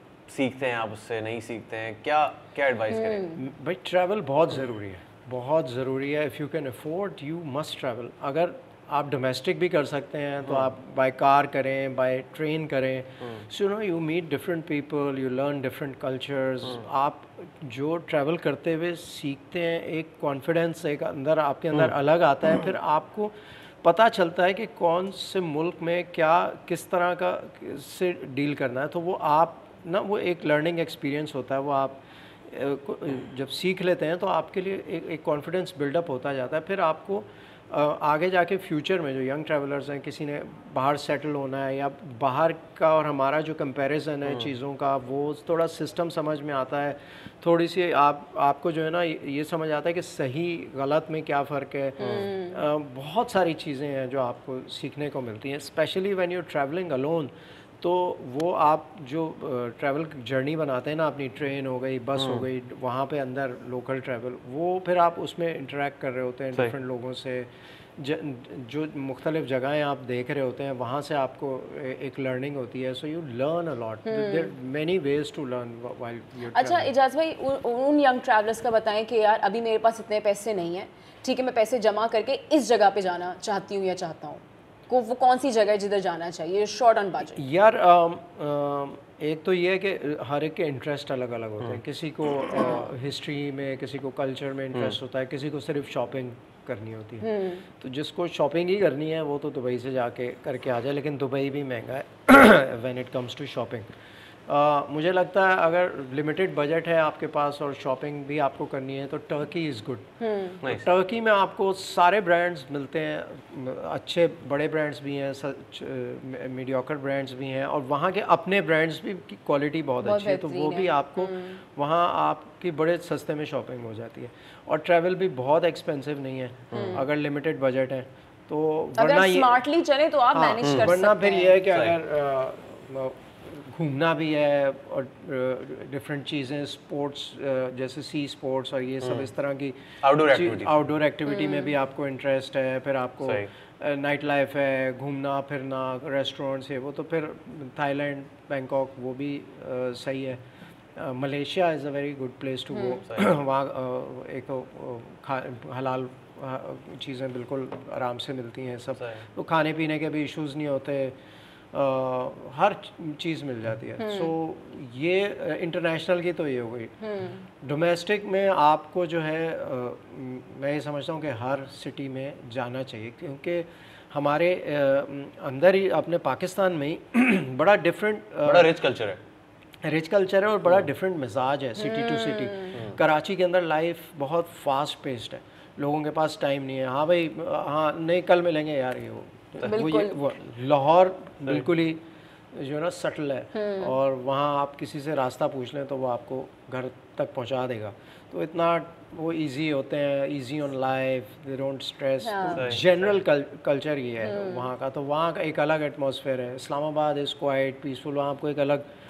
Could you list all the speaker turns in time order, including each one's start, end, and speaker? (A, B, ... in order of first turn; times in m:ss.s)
0:00.3-0:03.3 A
0:02.9-0:03.4 B
0:03.4-1:16.9 C
0:52.0-0:52.6 B
1:14.0-1:14.5 B
1:16.5-1:27.4 B
1:27.3-1:43.9 C
1:32.5-1:32.9 B
1:37.2-1:37.6 B
1:44.5-1:50.1 C
1:50.2-1:50.6 B
1:50.6-2:09.6 C
2:00.0-2:01.6 B
2:06.7-2:07.0 A
2:06.7-2:07.0 B
2:09.0-2:11.6 B
2:10.3-2:30.4 C
2:20.0-2:20.8 A
2:21.3-2:21.7 B
2:30.9-2:41.2 C
2:32.7-2:33.0 B
2:41.7-2:47.0 C
2:44.0-2:44.3 B
2:47.0-2:47.4 B
2:47.6-2:58.7 C
2:58.4-2:59.2 A
2:59.8-3:28.9 C
3:01.8-3:02.8 B
3:09.6-3:10.2 B
3:13.5-3:13.9 B
3:22.2-3:22.6 B
3:22.5-3:23.1 A
3:24.2-3:24.7 B